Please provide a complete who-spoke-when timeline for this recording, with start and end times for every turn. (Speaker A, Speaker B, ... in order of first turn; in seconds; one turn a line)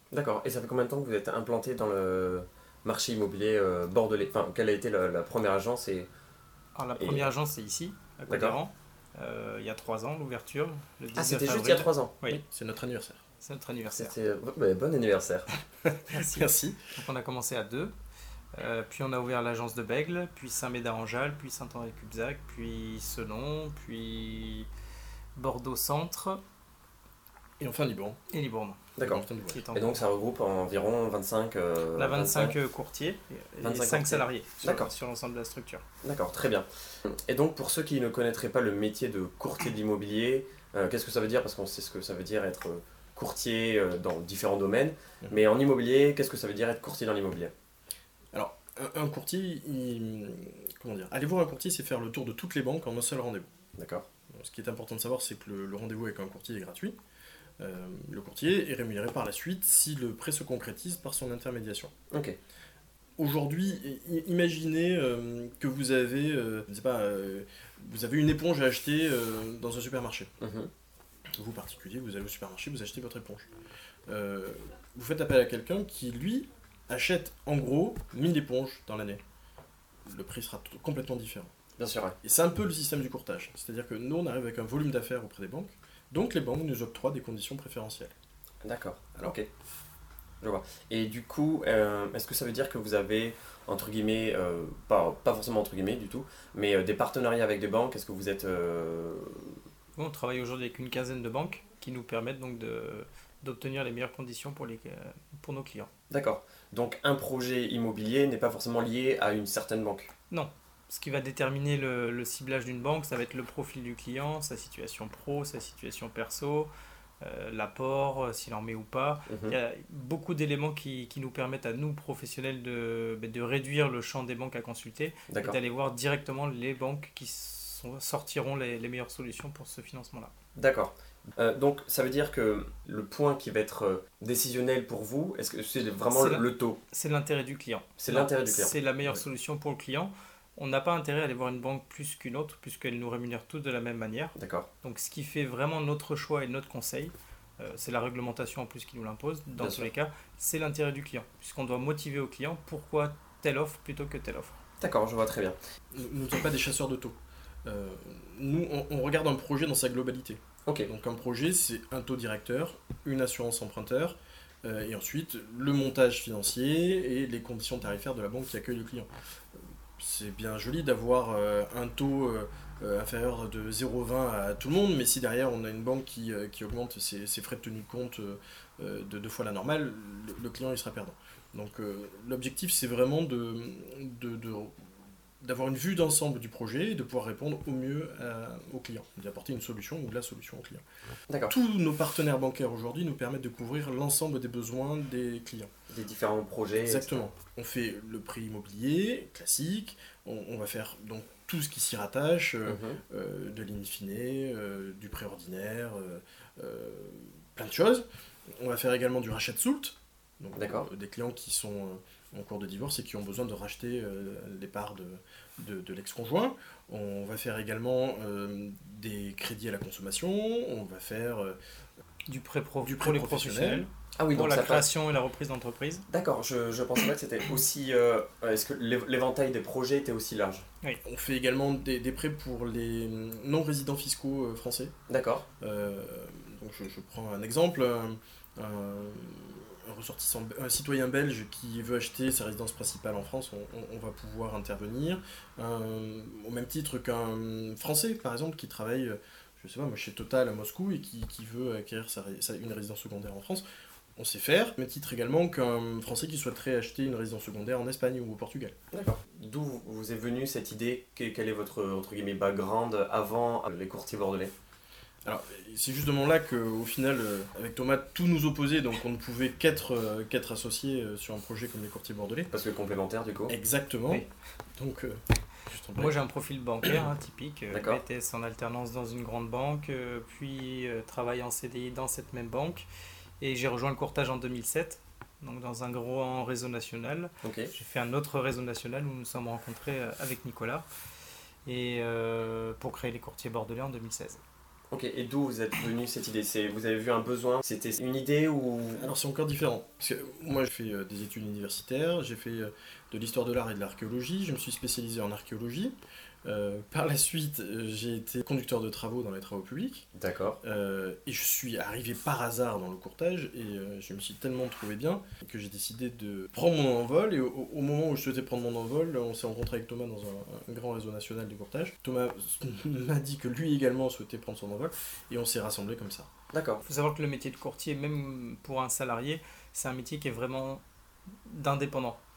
Speaker A: 0.1-6.1
Speaker B: 6.8-12.4
Speaker A: 7.0-7.3
Speaker A: 8.3-8.6
Speaker A: 11.2-12.2
Speaker C: 12.3-13.2
Speaker B: 13.4-14.2
Speaker A: 13.8-15.5
Speaker C: 15.8-16.8
Speaker B: 16.1-17.9
Speaker B: 18.6-24.7
Speaker B: 25.4-26.4
Speaker C: 27.6-28.2
Speaker B: 28.3-28.9
Speaker A: 29.0-32.6
Speaker C: 29.0-29.6
Speaker B: 29.5-30.0
Speaker B: 32.0-35.8
Speaker A: 33.6-34.9
Speaker A: 36.0-47.5
Speaker C: 48.3-53.5
Speaker A: 53.8-54.1
Speaker C: 54.3-57.0
Speaker C: 57.6-61.9
Speaker A: 62.1-62.4
Speaker C: 63.2-70.3
Speaker A: 70.4-70.7
Speaker C: 71.4-73.5
Speaker C: 74.1-79.2
Speaker C: 80.1-81.5
Speaker A: 81.8-82.2
Speaker C: 82.2-88.1
Speaker A: 88.6-89.5
Speaker A: 90.4-99.6
Speaker B: 100.0-105.9
Speaker A: 106.1-110.1
Speaker B: 110.3-116.7
Speaker B: 117.2-130.3
Speaker A: 119.3-119.6
Speaker A: 125.3-125.6
Speaker A: 130.6-136.8
Speaker B: 136.1-154.6
Speaker A: 138.0-138.7
Speaker A: 144.4-144.7
Speaker A: 149.6-149.9
Speaker A: 154.8-155.6
Speaker C: 155.9-169.1
Speaker C: 170.0-184.8
Speaker C: 185.4-190.8
Speaker C: 191.5-195.7
Speaker A: 195.9-197.3
Speaker C: 196.8-208.1
Speaker A: 202.7-203.0
Speaker C: 208.6-221.6
Speaker A: 210.6-210.9
Speaker B: 222.3-226.1
Speaker C: 222.8-223.9
Speaker A: 224.2-224.9
Speaker A: 226.1-230.7
Speaker C: 231.0-234.9
Speaker A: 235.1-235.4
Speaker C: 235.6-253.6
Speaker C: 254.2-258.8
Speaker A: 258.9-264.5
Speaker C: 265.2-272.5
Speaker A: 272.5-273.5
Speaker C: 273.5-274.3
Speaker C: 274.8-276.1
Speaker B: 276.0-282.9
Speaker A: 277.7-278.0
Speaker B: 283.4-290.9
Speaker A: 287.4-287.7
Speaker B: 291.7-294.4
Speaker A: 294.9-299.1
Speaker C: 299.0-310.1
Speaker A: 310.2-310.6
Speaker C: 310.6-326.3
Speaker A: 326.5-326.8
Speaker B: 326.9-330.8
Speaker B: 331.5-332.2